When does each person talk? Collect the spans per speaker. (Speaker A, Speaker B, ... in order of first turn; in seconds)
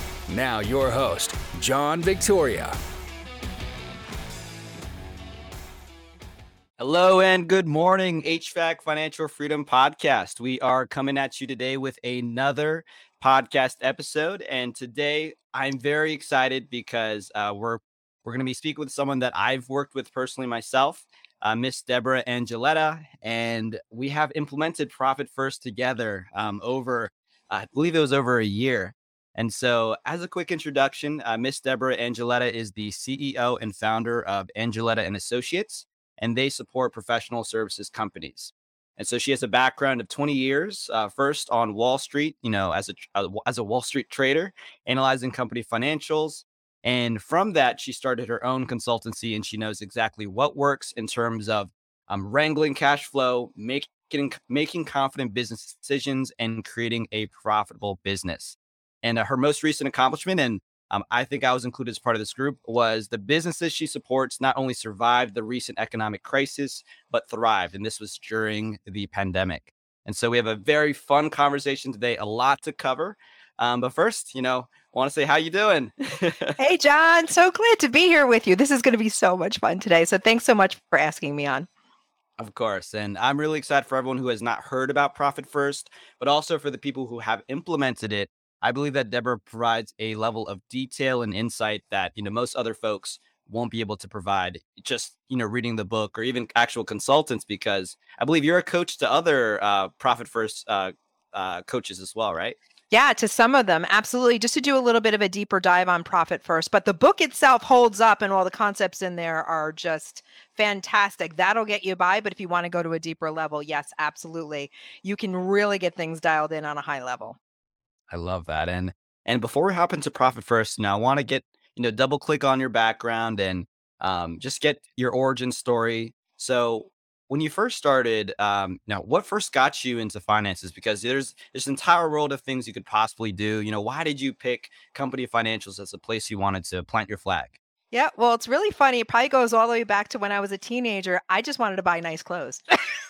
Speaker A: 0.3-2.7
Speaker B: 6.8-76.5, 82.4-102.6, 118.1-137.6
Speaker C: 76.6-81.7, 102.9-117.4, 137.9-142.6